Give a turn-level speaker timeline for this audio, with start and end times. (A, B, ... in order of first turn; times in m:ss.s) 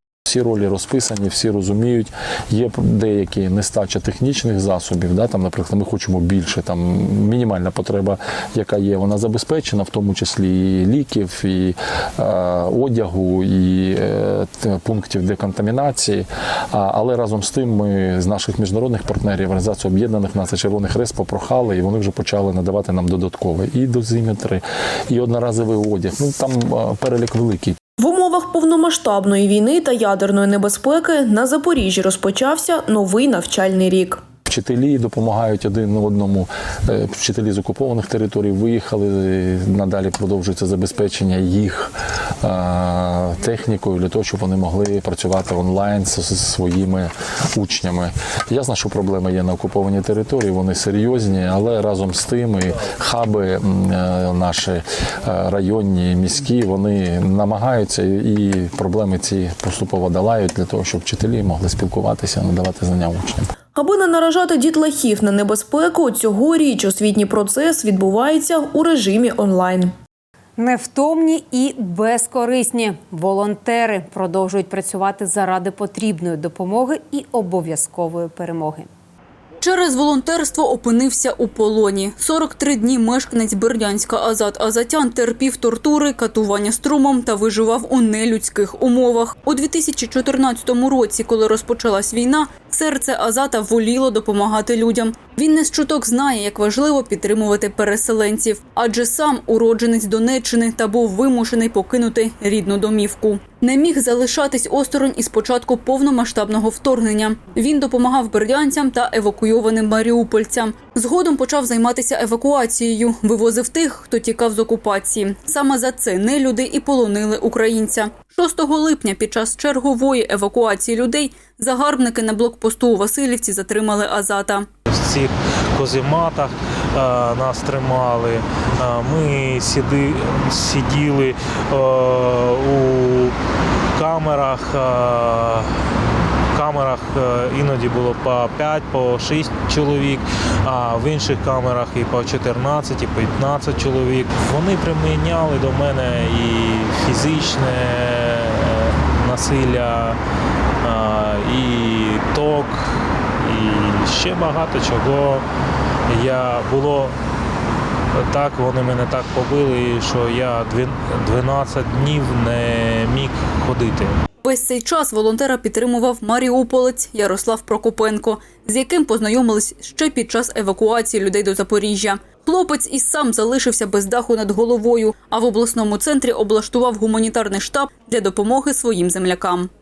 0:00.3-0:27.8 A
0:28.0-0:34.2 B
0:34.5-1:03.5 A
1:03.8-1:09.9 B
1:10.6-1:18.9 C
1:19.6-2:04.7 D
2:04.9-2:13.3 E
2:14.0-2:15.7 E
2:16.5-2:30.2 E
2:30.8-2:32.9 E
2:33.4-2:35.4 E
2:36.1-2:37.1 E
2:38.2-2:44.2 E
2:44.4-2:59.7 D